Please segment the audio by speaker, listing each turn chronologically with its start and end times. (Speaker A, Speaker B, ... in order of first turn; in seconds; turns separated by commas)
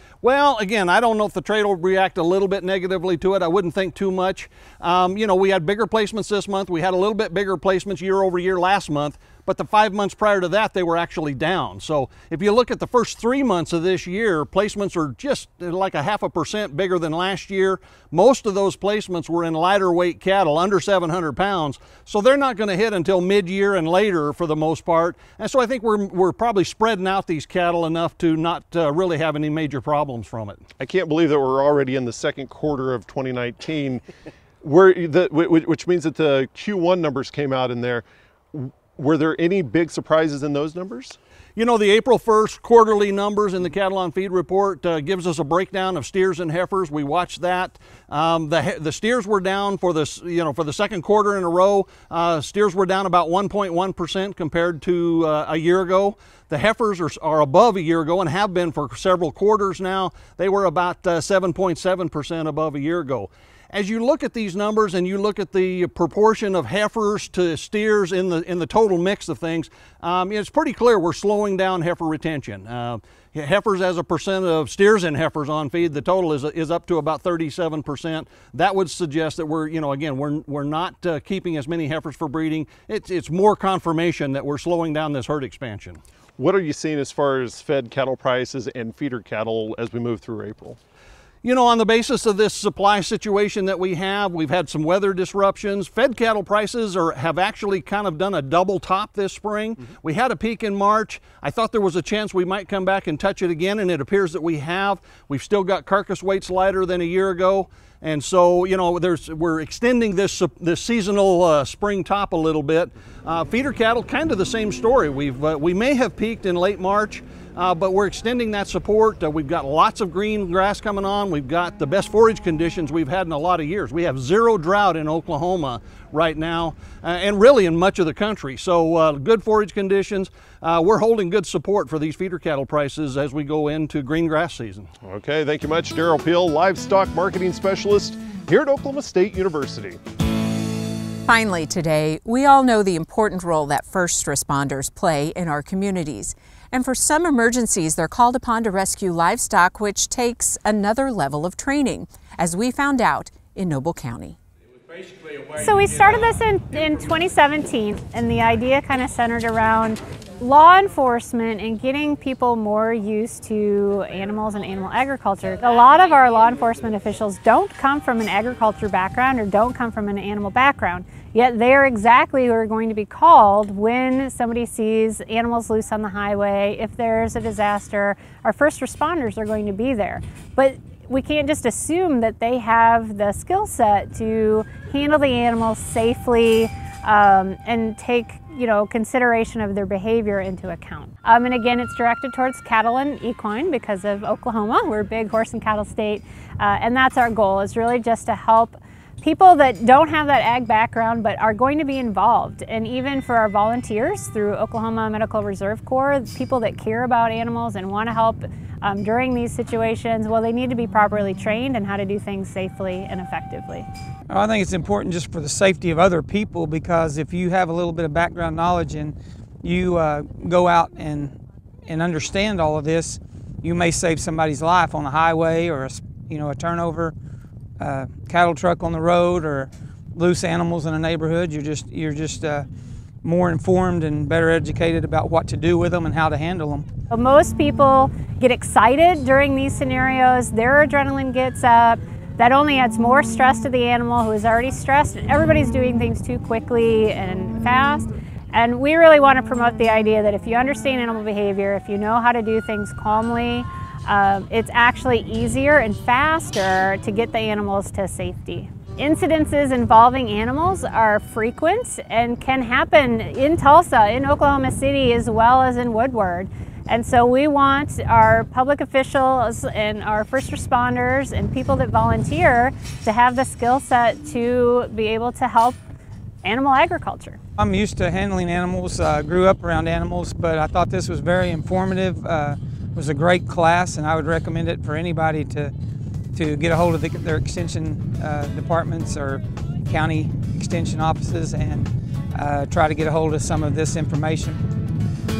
Speaker A: 0.2-30.6, Speaker B: 30.8-34.0, Speaker B: 34.6-41.2, Speaker A: 41.5-86.0, Speaker B: 86.4-90.8, Speaker A: 91.4-134.9, Speaker B: 135.0-140.0, Speaker C: 141.3-154.4, Speaker D: 155.5-213.9, Speaker E: 214.3-227.1, Speaker E: 227.8-232.7, Speaker E: 233.2-236.8, Speaker D: 237.1-275.8, Speaker D: 276.4-277.4, Speaker E: 277.6-285.7, Speaker E: 286.3-294.6